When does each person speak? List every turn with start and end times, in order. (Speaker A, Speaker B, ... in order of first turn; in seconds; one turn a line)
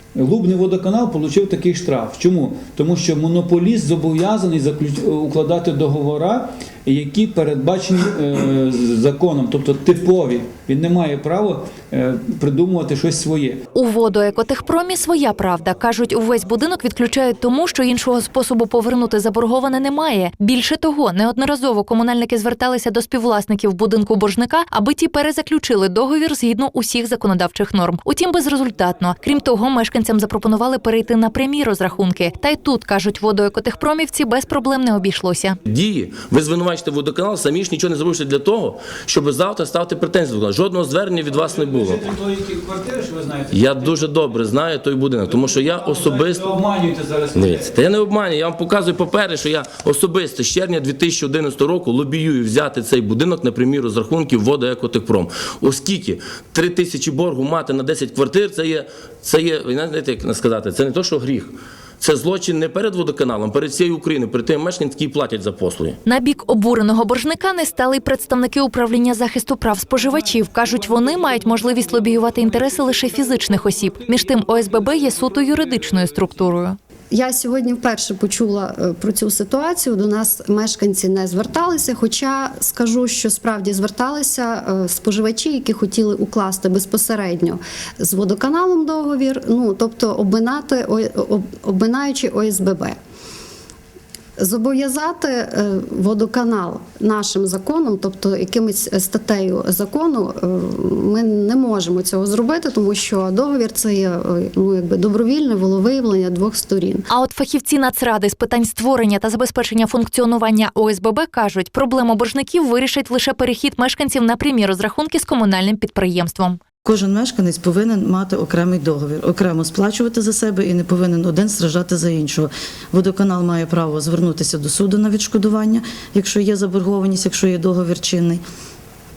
Speaker A: 0.1-13.6
Speaker B: 13.7-35.6
Speaker C: 35.6-42.1
Speaker A: 41.4-44.0
Speaker C: 43.5-46.6
Speaker A: 45.3-47.8
Speaker C: 47.3-66.0
Speaker B: 66.0-76.8
Speaker D: 77.1-93.0
Speaker D: 94.4-107.1
Speaker B: 107.1-116.6
Speaker E: 116.8-128.4